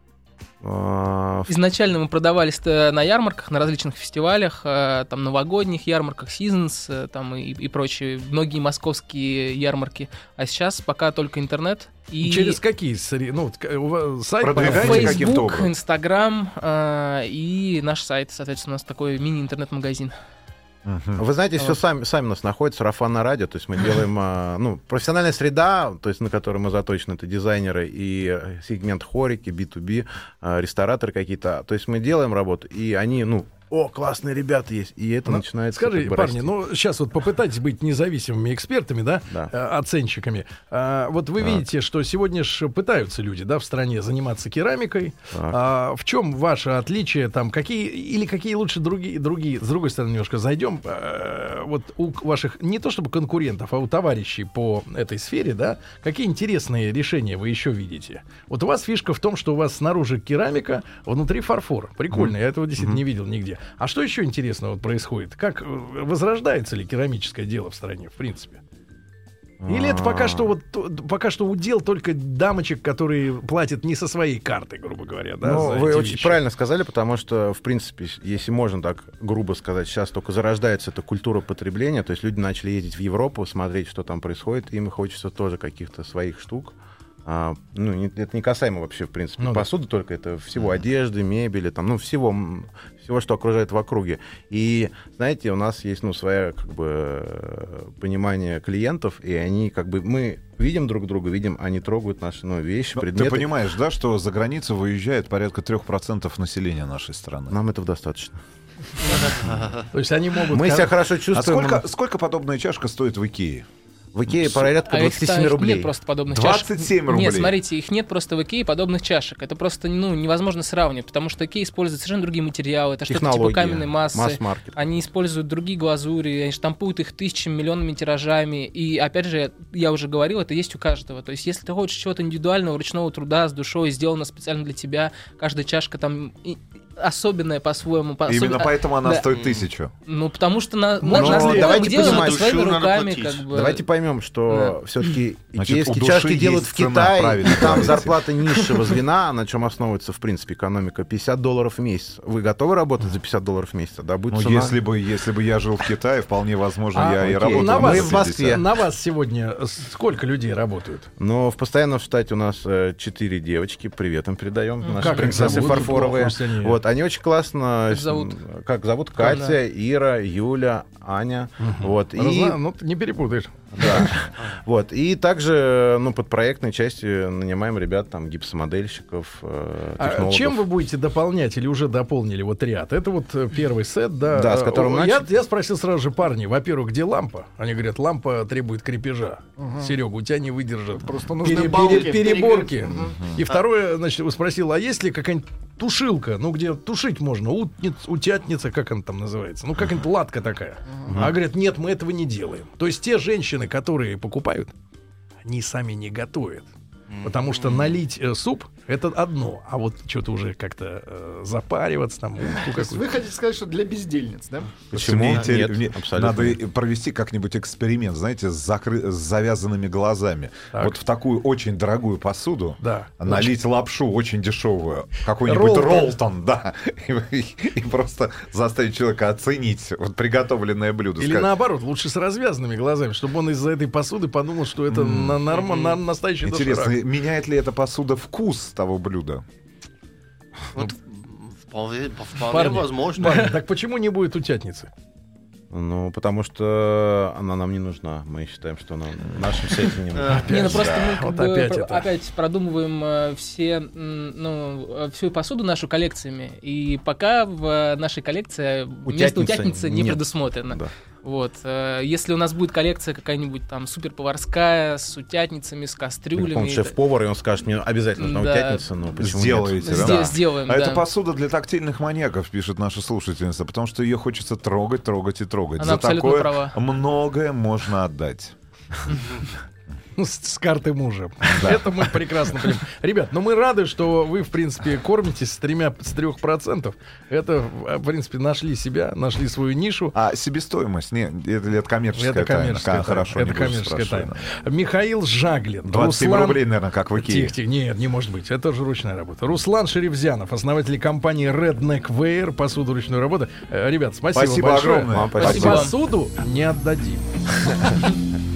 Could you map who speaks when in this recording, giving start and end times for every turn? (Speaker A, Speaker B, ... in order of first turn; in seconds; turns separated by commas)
Speaker A: 0.6-1.5, Speaker B: 1.5-12.6, Speaker C: 12.2-15.2, Speaker D: 14.4-15.7, Speaker B: 14.6-20.1, Speaker D: 20.8-21.2, Speaker A: 21.2-36.5, Speaker C: 35.3-68.6, Speaker A: 45.3-45.6, Speaker A: 62.1-63.0, Speaker A: 69.6-70.5, Speaker C: 69.7-76.4, Speaker A: 75.4-103.5, Speaker C: 89.4-89.7, Speaker D: 102.9-107.5, Speaker A: 107.5-108.4, Speaker E: 109.4-109.8, Speaker C: 109.9-110.9, Speaker A: 110.5-111.8, Speaker D: 111.3-113.7, Speaker A: 114.1-115.9, Speaker D: 114.3-114.6, Speaker B: 114.8-139.3, Speaker D: 116.3-117.6, Speaker A: 123.1-125.1, Speaker D: 138.2-139.9, Speaker E: 139.3-139.7, Speaker B: 140.1-143.8, Speaker C: 141.0-141.6, Speaker A: 141.1-142.6, Speaker D: 141.2-141.6, Speaker E: 141.4-143.4, Speaker A: 143.5-154.8, Speaker B: 144.5-144.7, Speaker D: 145.6-148.2, Speaker D: 154.3-158.6, Speaker C: 156.9-161.1, Speaker A: 157.2-158.6, Speaker A: 161.2-172.6, Speaker B: 164.8-165.7, Speaker C: 164.9-166.8, Speaker B: 167.9-168.3, Speaker B: 169.2-169.6, Speaker C: 171.6-174.1, Speaker A: 173.7-180.7, Speaker C: 180.0-204.7, Speaker A: 184.3-185.3, Speaker F: 189.6-189.9, Speaker F: 191.0-193.2, Speaker E: 201.1-201.3, Speaker C: 205.4-206.7, Speaker E: 207.1-208.0, Speaker C: 207.2-213.1, Speaker F: 212.6-214.9, Speaker A: 214.9-216.6, Speaker D: 214.9-231.5, Speaker C: 220.7-221.0, Speaker C: 222.8-223.5, Speaker C: 225.4-226.1, Speaker C: 231.2-237.0, Speaker D: 234.9-235.4, Speaker E: 235.5-235.9, Speaker D: 236.4-239.4, Speaker E: 240.7-243.6, Speaker C: 242.5-244.9, Speaker A: 245.7-251.0, Speaker E: 250.1-250.5, Speaker C: 250.3-252.0, Speaker B: 250.5-266.9, Speaker A: 259.1-260.9, Speaker A: 266.3-270.3, Speaker B: 268.2-268.8, Speaker D: 269.2-278.5, Speaker B: 269.8-271.1, Speaker B: 275.8-276.8, Speaker C: 280.1-290.1, Speaker D: 281.4-282.2, Speaker D: 290.1-294.4, Speaker C: 292.1-296.6, Speaker D: 295.8-297.5, Speaker C: 297.1-307.2, Speaker D: 304.3-305.9, Speaker A: 305.1-305.8, Speaker B: 305.4-305.9